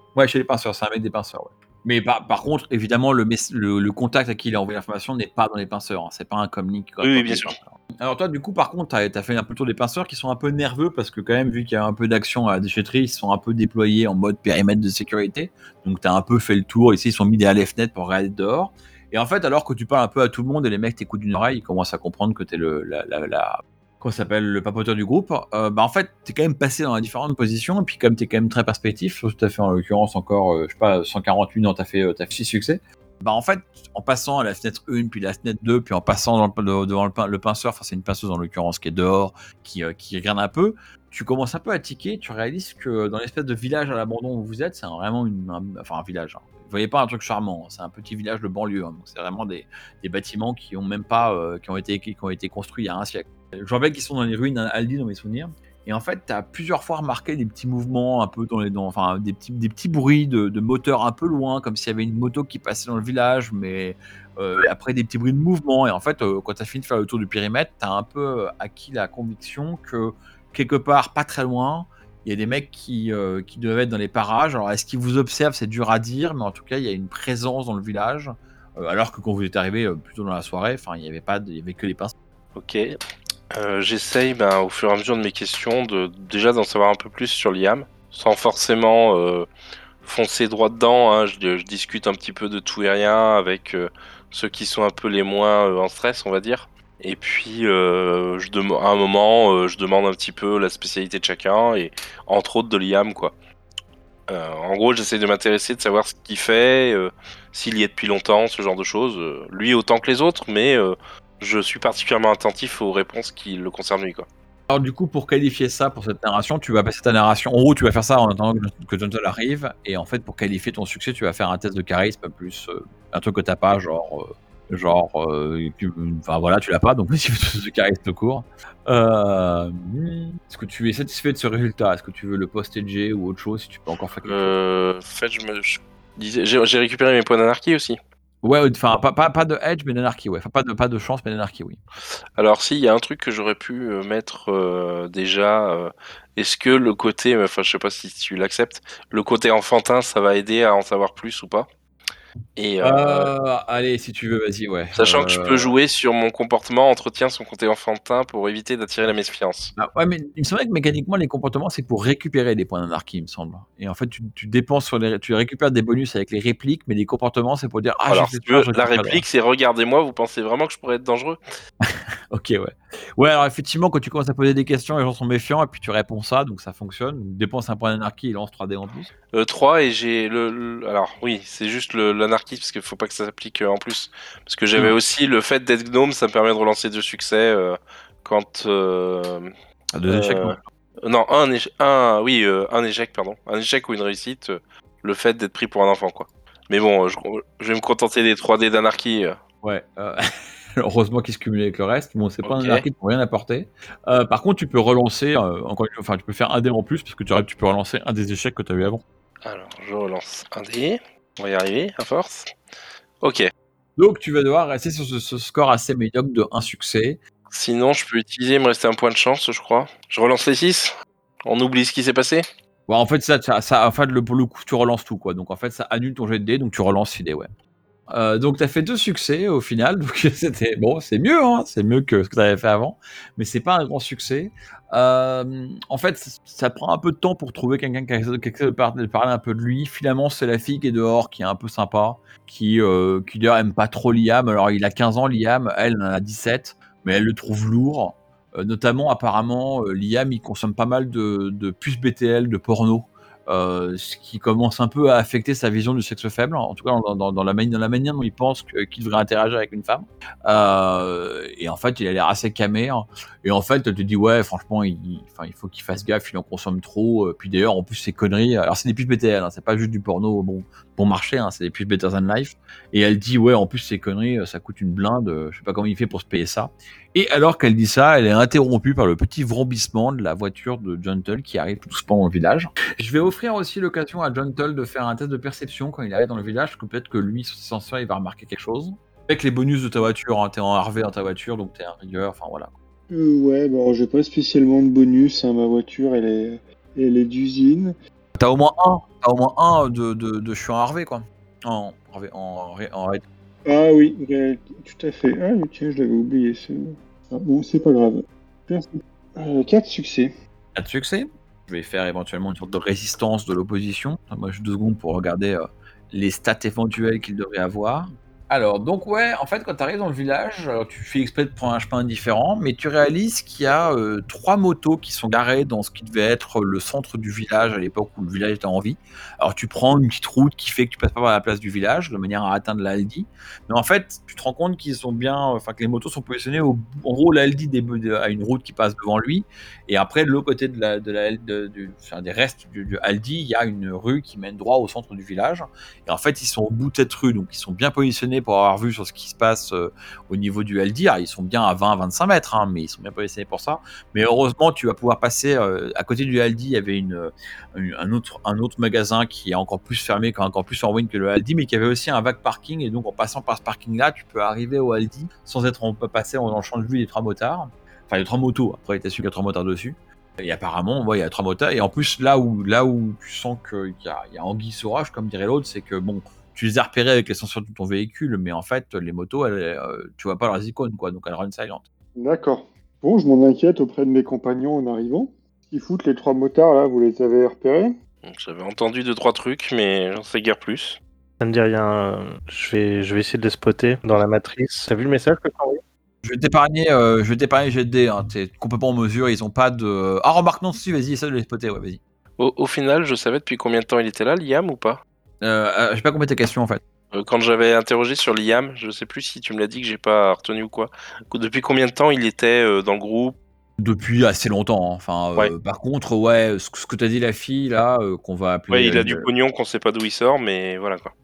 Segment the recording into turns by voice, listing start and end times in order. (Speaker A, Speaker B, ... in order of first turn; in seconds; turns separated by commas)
Speaker A: 0.1-82.1, Speaker B: 7.0-7.5, Speaker B: 82.5-83.0, Speaker B: 83.5-89.5, Speaker B: 90.0-103.3, Speaker B: 104.3-114.3, Speaker A: 114.7-134.5, Speaker B: 134.2-138.0, Speaker A: 138.4-141.8, Speaker B: 142.4-151.7, Speaker B: 152.6-153.3, Speaker A: 152.8-155.7, Speaker B: 155.0-159.7, Speaker A: 159.8-169.2, Speaker B: 168.1-171.4, Speaker A: 171.8-179.1, Speaker B: 179.3-189.5, Speaker A: 189.9-190.6, Speaker B: 190.1-199.4, Speaker A: 199.6-200.2, Speaker A: 200.8-209.0, Speaker B: 202.4-202.8, Speaker B: 209.4-212.5, Speaker B: 213.2-213.5, Speaker A: 214.0-217.2, Speaker B: 217.5-220.9, Speaker B: 221.4-222.4, Speaker A: 222.9-227.5, Speaker A: 228.1-292.7, Speaker C: 293.1-297.9, Speaker A: 298.4-303.2, Speaker C: 303.6-310.3, Speaker A: 310.7-381.8, Speaker C: 382.1-387.9, Speaker B: 388.2-391.0, Speaker D: 391.4-395.8, Speaker A: 396.2-402.0, Speaker B: 402.4-405.0, Speaker A: 405.4-406.8, Speaker B: 407.1-413.4, Speaker A: 413.8-419.3, Speaker B: 418.7-421.1